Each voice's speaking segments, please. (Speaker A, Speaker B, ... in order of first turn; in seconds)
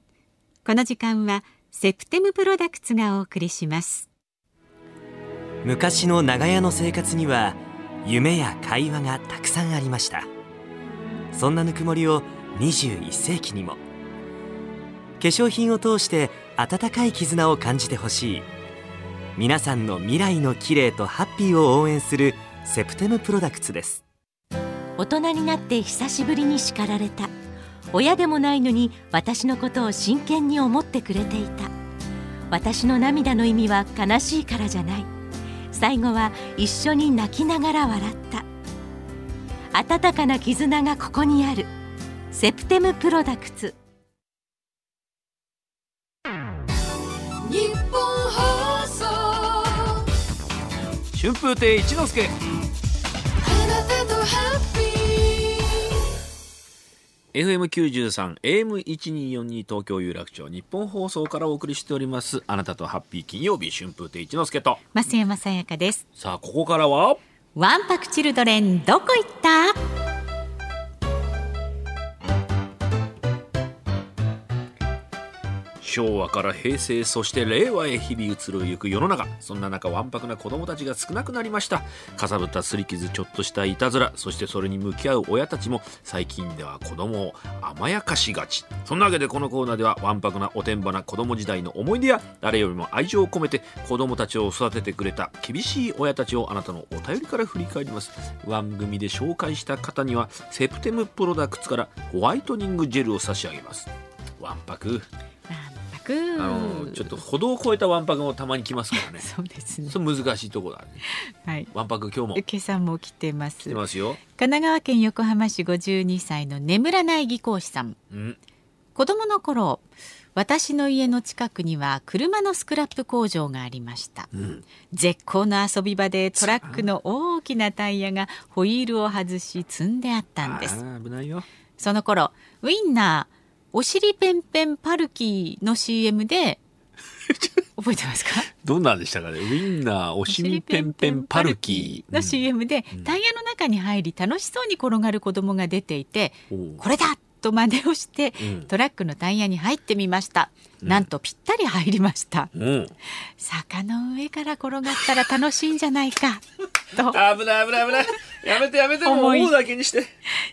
Speaker A: 0.6-4.1, 64.9-66.0, 67.5-69.7, 105.5-107.2, 108.9-110.0, 111.4-111.7, 112.3-113.8, 114.3-118.0, 118.9-119.8, 120.3-124.3, 124.9-130.8, 131.8-136.6, 137.8-138.5, 140.3-152.5, 153.4-157.2, 159.0-159.5
Speaker B: 5.6-10.3, 11.3-13.8, 15.2-18.5, 19.4-24.0
Speaker C: 25.0-27.3, 27.9-31.7, 32.5-35.1, 35.7-38.4, 39.7-41.7, 42.3-43.8
Speaker D: 47.5-49.8, 53.5-55.2
Speaker E: 51.1-52.3, 57.3-64.8, 66.2-67.2, 75.8-103.9, 104.4-105.0, 106.3-109.2, 109.8-111.0, 111.7-112.4, 113.6-114.2, 118.1-118.4, 124.3-124.7, 126.3-126.9, 130.4-131.4, 137.3-137.5, 138.5-143.2, 146.5-146.8, 148.4-148.7, 150.8-151.1, 152.5-152.9, 156.9-160.1